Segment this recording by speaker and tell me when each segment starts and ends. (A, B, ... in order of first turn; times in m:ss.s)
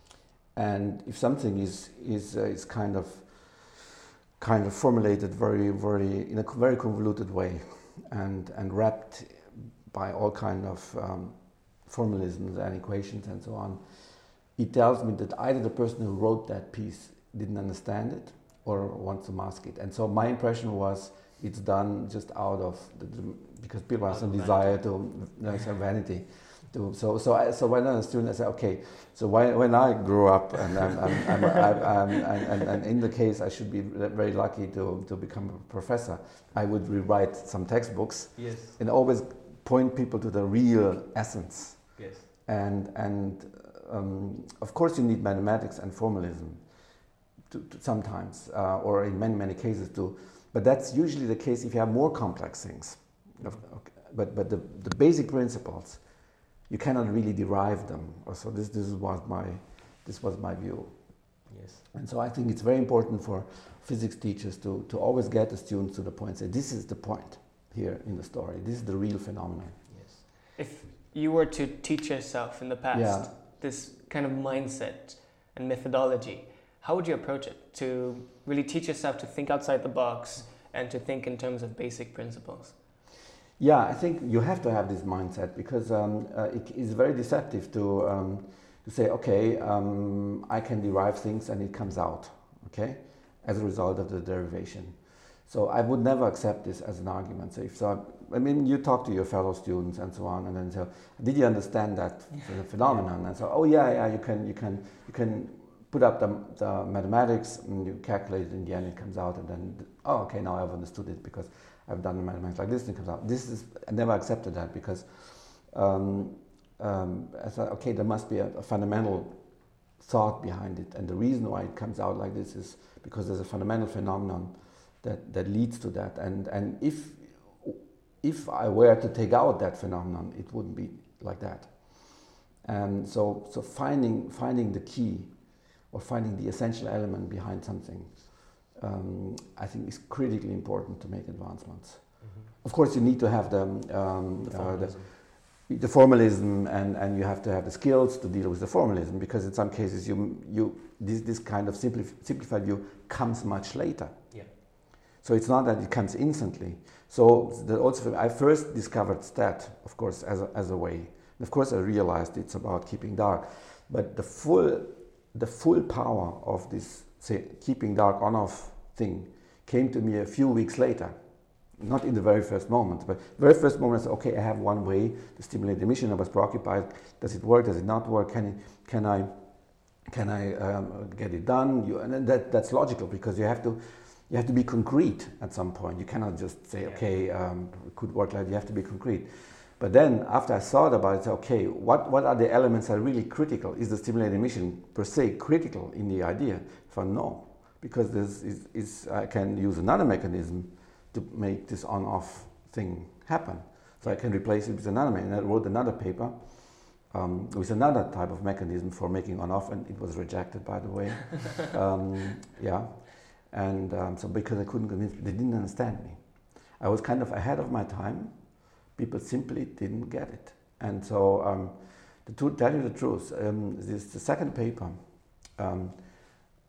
0:00.5-0:46.8 A
0:24.1-0:24.8 B
0:38.3-0:38.8 B
0:42.0-0:42.3 B
0:47.4-1:09.9 A
0:53.4-0:53.6 B
1:01.5-1:01.8 B
1:09.9-1:10.2 B
1:10.6-1:22.8 C
1:12.9-1:13.3 A
1:23.6-2:34.6 A
2:22.2-2:22.5 B
2:24.4-2:25.1 B
2:35.2-2:51.2 A
2:51.7-2:59.3 A
3:00.0-3:46.4 A
3:06.8-3:07.1 B